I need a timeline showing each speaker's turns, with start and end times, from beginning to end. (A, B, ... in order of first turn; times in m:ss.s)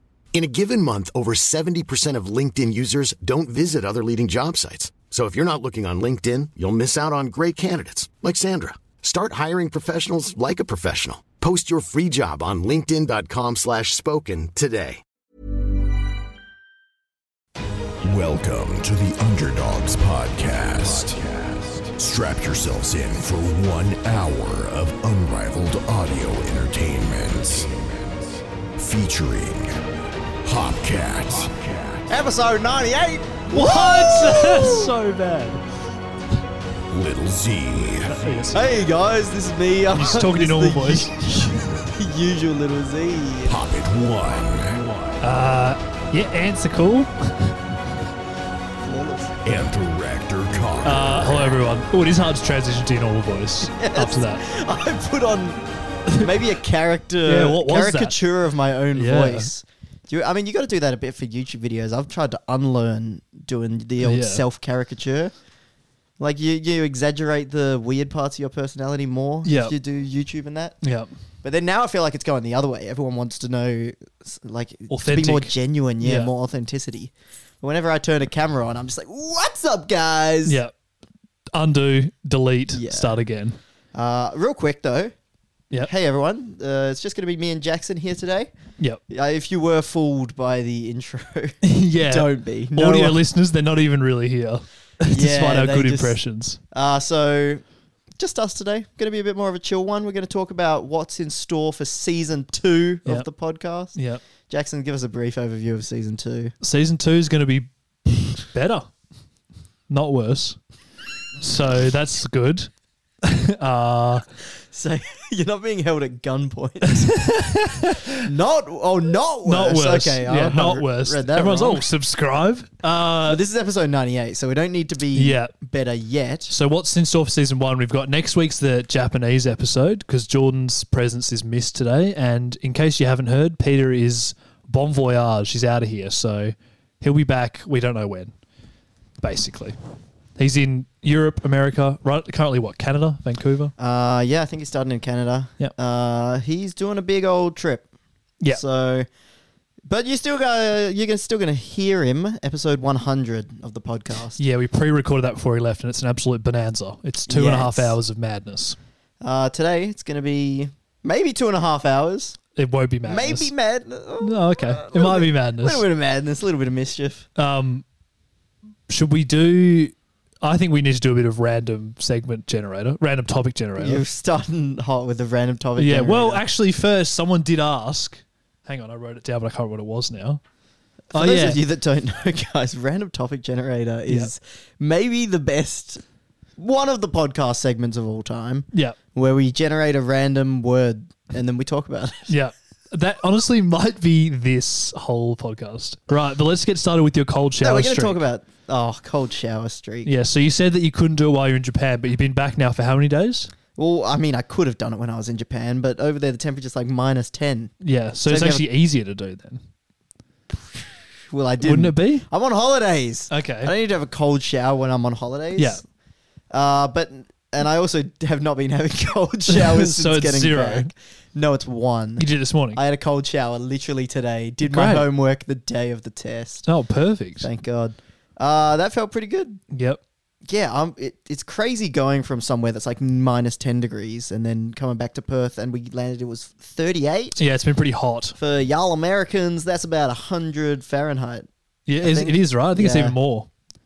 0:00.3-0:15.0 A
0:18.0-0:28.1 B
0:28.8-0:29.8 B
0:30.4-0:32.0 B
0:32.1-0:34.9 C
0:33.5-0:35.6 D
0:36.9-0:38.5 B
0:38.1-0:38.8 D
0:38.5-0:43.6 C
0:39.9-0:41.1 D
0:43.5-0:44.9 B
0:45.2-0:47.6 D
0:48.8-0:49.5 C
0:49.4-0:51.5 B
0:50.8-0:54.4 D
0:53.6-1:05.3 C
0:57.2-0:58.2 D
0:58.9-0:59.5 D
1:04.0-1:04.4 D
1:06.2-1:10.8 C
1:09.4-1:09.7 D
1:10.8-1:11.1 D
1:11.4-1:20.6 C
1:14.9-1:16.3 D
1:20.4-1:20.7 D
1:21.5-1:23.6 D
1:22.7-1:23.2 C
1:23.9-1:25.1 C
1:25.8-1:28.5 C
1:29.1-1:33.2 C
1:31.6-1:36.6 D
1:35.0-1:36.2 C
1:36.7-1:37.6 C
1:38.2-1:44.0 C
1:43.9-1:44.2 D
1:44.5-1:46.5 C
1:46.6-1:48.9 D
1:49.9-1:50.6 D
1:51.4-1:52.7 D
1:53.2-1:54.2 D
1:54.7-1:57.3 C
1:56.8-1:58.2 D
1:58.2-2:01.9 C
1:59.4-2:03.4 D
2:03.2-2:06.5 C
2:05.1-2:05.5 D
2:06.5-2:18.3 D
2:19.2-2:19.8 D
2:20.4-2:23.7 D
2:23.8-2:27.9 C
2:28.5-2:29.1 C
2:29.8-2:34.4 C
2:34.4-2:38.8 D
2:37.3-2:38.0 C
2:39.2-2:42.4 C
2:42.6-2:43.5 D
2:43.0-2:47.3 C
2:44.2-2:45.8 D
2:47.4-2:47.8 D
2:48.9-2:54.0 D
2:53.8-2:56.4 C
2:55.8-3:00.4 D
3:01.1-3:06.0 C
3:01.1-3:01.6 D
3:04.1-3:04.3 D
3:06.6-3:12.3 C
3:12.3-3:18.2 D
3:17.6-3:20.1 C
3:20.0-3:23.5 D
3:23.8-3:27.7 C
3:27.8-3:29.6 D
3:28.2-3:28.6 C
3:30.7-3:35.8 C
3:31.6-3:32.2 D
3:33.3-3:33.7 D
3:35.6-3:35.8 D
3:36.5-3:46.6 C
3:39.5-3:40.9 D
3:42.2-3:42.8 D
3:44.6-3:45.1 D
3:46.6-3:47.5 D
3:47.4-3:49.6 C
3:49.7-3:50.0 D
3:50.4-3:57.4 C
3:57.4-3:58.4 D
3:58.4-4:01.5 C
4:01.9-4:03.5 D
4:02.0-4:03.2 C